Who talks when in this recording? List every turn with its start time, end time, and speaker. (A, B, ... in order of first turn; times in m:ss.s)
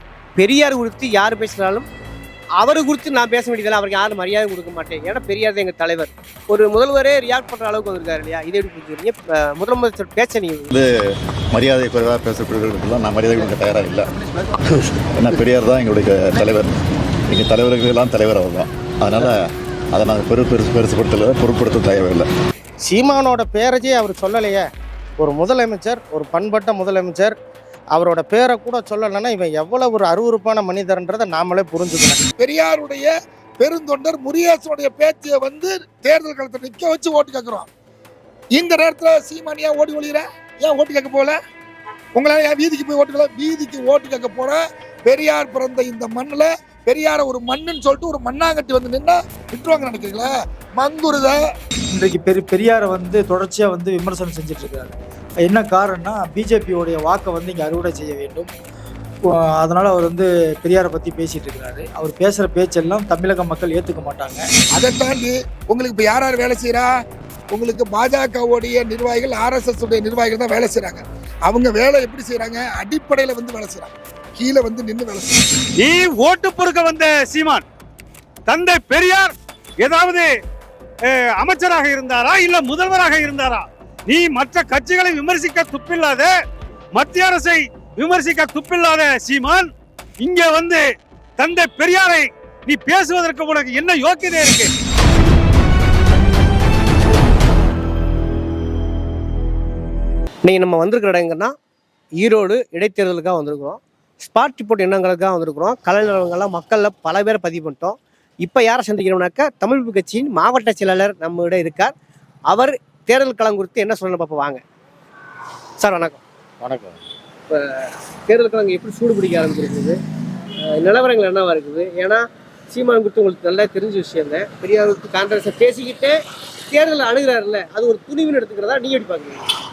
0:00.4-0:01.9 A
0:02.6-0:10.7 A
0:11.5-0:14.2 B
0:14.7-0:16.7 B
0:17.3-0:22.3 B
0:22.8-0:24.6 C
0:25.2-0:27.3 C
0:27.9-0:32.2 C
0:32.4-0:37.7 D
0:38.5-0:41.4 D
0:42.1-0:51.4 D
0:51.9-0:58.5 E
0:59.2-1:04.5 E
1:04.7-1:06.9 D
1:07.5-1:15.3 D
1:15.8-1:17.6 F
1:18.5-1:20.3 F
1:21.1-1:26.3 F
1:26.9-1:29.7 F
1:30.2-1:30.8 F
1:31.4-1:34.7 F
1:40.4-1:41.5 A
1:42.2-1:51.9 A
1:52.5-1:54.6 A
1:55.8-1:56.2 A
1:56.6-1:57.0 C
1:57.5-2:00.0 A
2:00.6-2:06.1 A
2:06.7-2:09.4 A